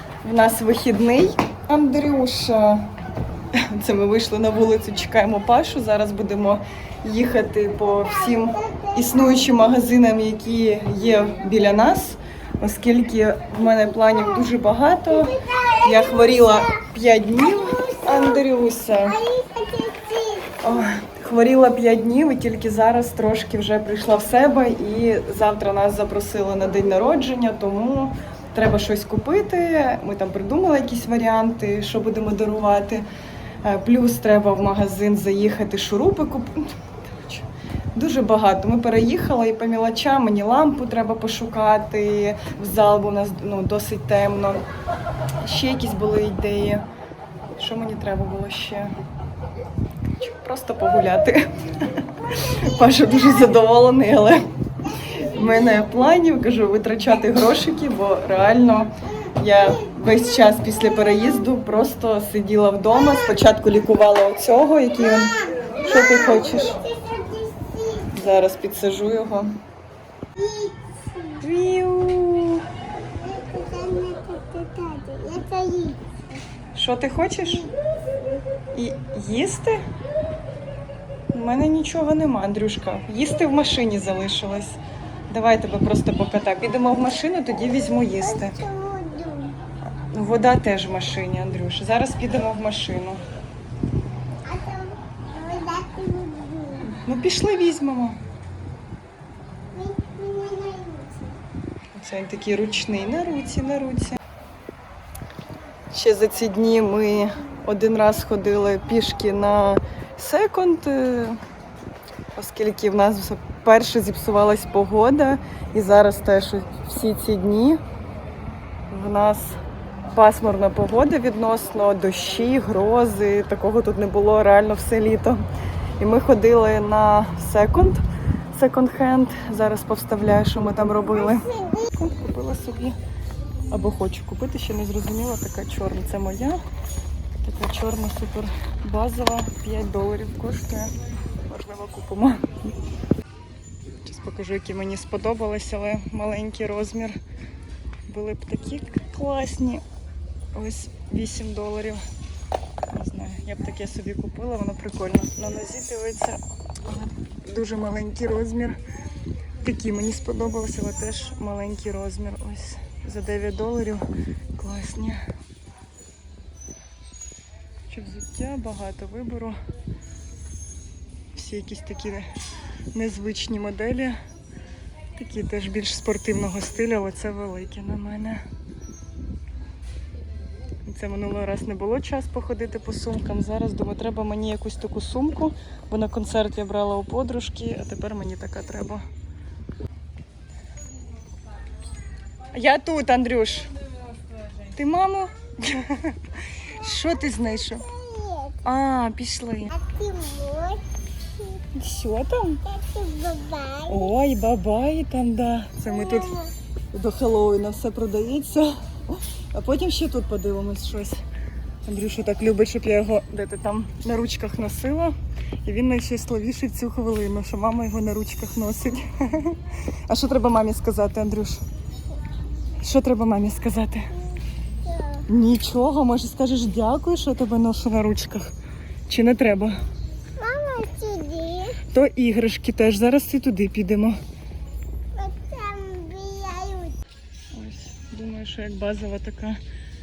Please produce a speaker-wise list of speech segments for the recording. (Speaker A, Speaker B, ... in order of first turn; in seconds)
Speaker A: 0.2-2.9, 3.5-19.2, 20.6-33.0, 33.6-44.6, 45.4-46.8, 47.5-48.9, 50.2-54.4, 55.0-66.8, 68.1-69.5, 71.4-72.7, 76.7-77.7, 78.7-79.8, 81.3-88.6, 90.0-93.2, 96.8-98.2, 101.9-104.2, 105.9-111.4, 112.3-117.8, 118.9-125.5, 126.0-132.9, 133.7-136.6, 137.4-140.9, 141.4-142.6, 144.0-147.2, 148.1-149.8, 150.5-152.0, 152.9-158.8, 159.6-164.0, 164.6-165.2, 167.9-169.6, 171.3-172.3, 172.9-174.2, 175.2-178.4, 180.8-189.0, 192.5-193.8, 194.6-197.9, 198.6-199.8, 201.7-202.6, 203.8-206.4, 206.9-211.2, 211.8-221.6, 222.8-224.1, 225.3-228.5, 229.1-229.8, 231.8-234.2, 237.5-239.6
Speaker B: 15.3-16.0, 17.6-18.4, 19.0-20.7, 65.6-68.1, 70.3-71.4, 73.0-76.2, 88.4-89.6, 94.4-96.9, 99.7-101.4, 131.3-131.8, 197.8-198.6, 199.7-200.8, 202.7-204.1, 206.1-206.5, 224.8-225.2, 230.4-231.8, 235.1-237.0